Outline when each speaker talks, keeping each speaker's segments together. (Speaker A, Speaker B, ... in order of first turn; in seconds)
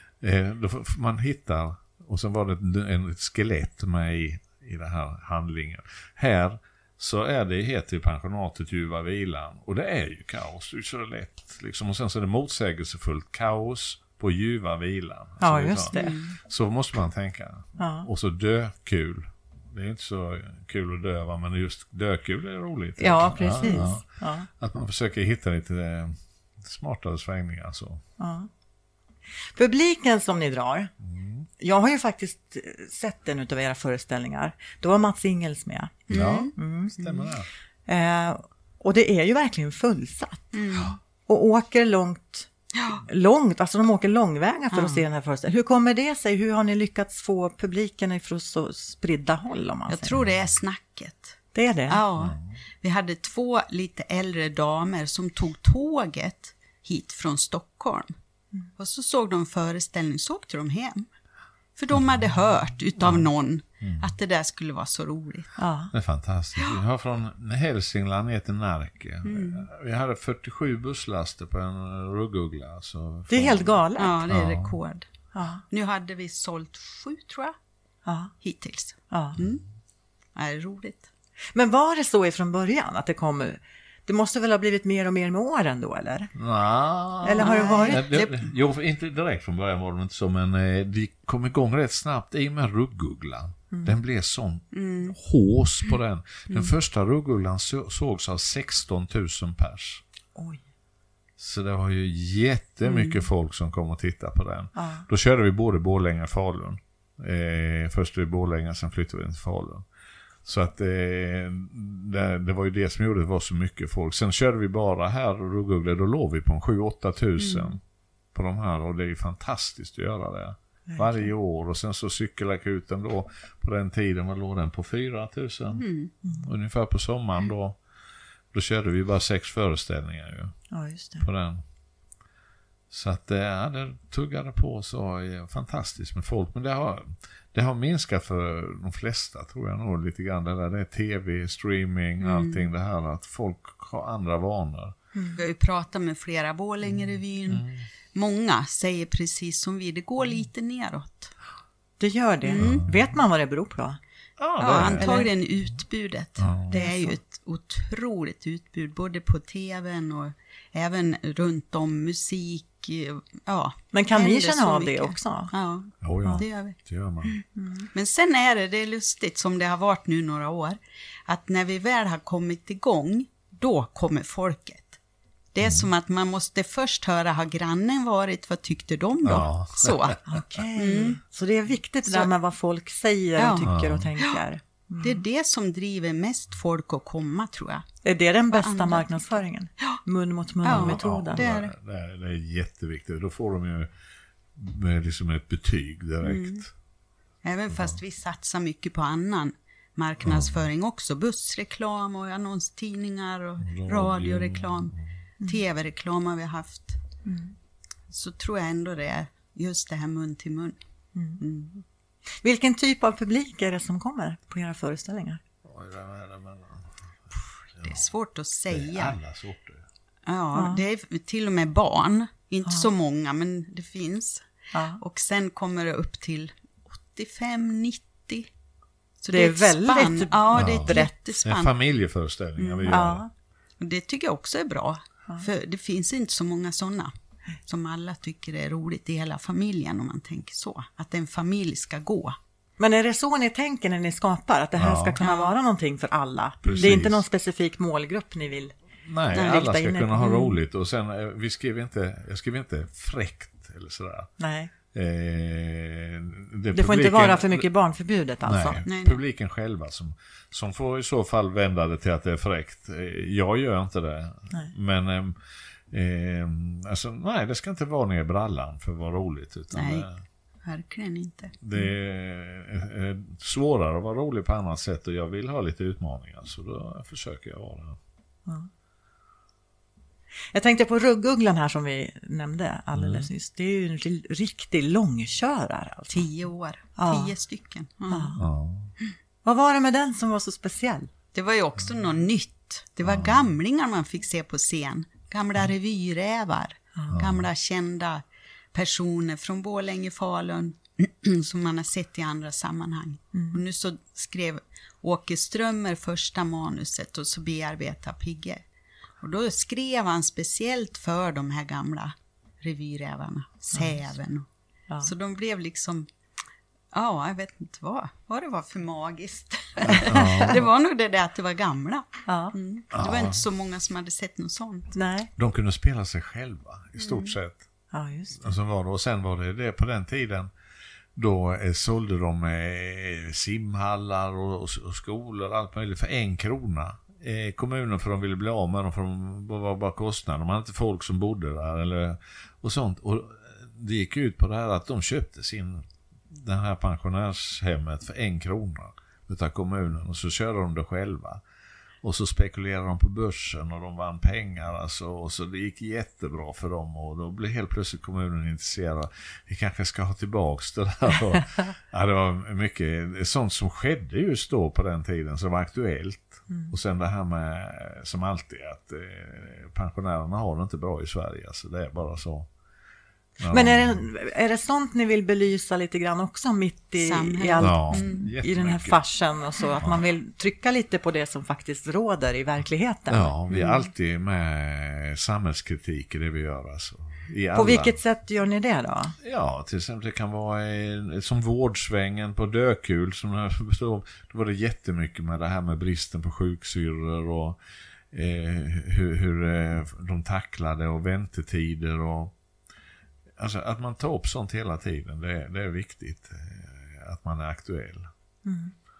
Speaker A: 0.2-28.0, 31.0-31.5, 36.1-37.5, 65.9-74.8, 86.3-100.0, 101.4-109.8, 110.4-117.8, 118.3-127.8, 128.5-130.6, 131.2-131.6, 132.9-144.9, 146.9-147.8, 152.6-152.9, 154.4-155.3, 156.4-156.7, 166.0-167.3, 175.6-175.9, 179.2-180.4, 183.6-184.1, 190.7-193.9, 194.5-196.7, 200.2-200.6, 203.7-205.0, 215.7-216.8, 217.8-218.0, 218.7-219.8, 230.5-233.2, 244.8-245.2, 246.6-247.2, 249.0-254.3, 254.9-257.7, 258.4-265.4, 265.9-270.1, 271.6-278.0, 282.9-283.3, 288.4-288.9, 293.0-293.4, 297.1-297.4, 319.8-320.7, 322.9-323.4, 325.4-327.6, 328.4-330.5, 331.1-351.4, 352.0-372.5, 373.4-374.0, 377.6-379.0, 383.1-388.0, 389.2-397.6, 398.1-402.3, 403.4-408.1
Speaker B: 15.4-16.3, 17.8-18.1, 23.0-24.5, 28.2-28.5, 29.5-30.9, 31.6-37.2, 37.9-40.5, 41.2-50.2, 51.5-52.0, 65.6-65.9, 73.3-74.2, 75.3-75.6, 78.0-78.3, 79.1-79.4, 81.5-86.3, 87.2-88.0, 100.3-100.6, 104.8-105.0, 126.2-126.5, 130.7-131.2, 152.0-154.0, 154.8-155.3, 156.7-157.1, 163.9-165.5, 167.6-167.9, 180.2-185.2, 188.0-191.4, 207.2-207.5, 211.1-211.4, 212.4-215.4, 220.5-220.8, 224.7-225.0, 229.3-231.1, 232.9-233.3, 242.8-248.7, 249.3-250.5, 254.4-254.7, 256.7-258.8, 280.5-286.2, 286.9-287.3, 288.1-288.4, 289.4-291.1, 303.3-303.6, 319.9-320.5, 322.3-322.5, 324.9-325.3, 327.9-328.5, 373.4-383.3, 387.5-389.1, 408.4-408.7
Speaker C: 15.9-16.3, 36.1-36.5, 40.5-40.9, 42.7-43.0, 44.7-45.0, 49.9-51.4, 51.9-58.1, 58.8-61.1, 61.8-65.6, 69.2-69.6, 74.0-75.1, 75.7-77.5, 78.4-79.6, 80.3-81.1, 87.4-88.5, 94.7-95.2, 117.4-117.7, 125.8-126.1, 142.2-142.7, 145.4-151.3, 152.4-152.8, 154.6-175.0, 175.5-180.2, 180.7-181.2, 183.4-183.6, 185.0-187.8, 188.5-190.0, 190.6-191.7, 196.2-196.6, 197.4-207.0, 208.1-210.8, 211.4-211.8, 217.8-219.2, 220.2-224.4, 225.0-226.5, 227.1-228.5, 229.2-231.7, 232.6-233.1, 233.8-237.1, 237.7-242.4, 245.2-245.5, 249.3-249.7, 258.8-259.2, 269.7-270.1, 270.6-271.6, 286.1-288.4, 291.3-308.6, 309.2-314.5, 315.0-316.1, 316.9-324.9, 327.0-327.3, 377.0-378.3, 383.5-383.8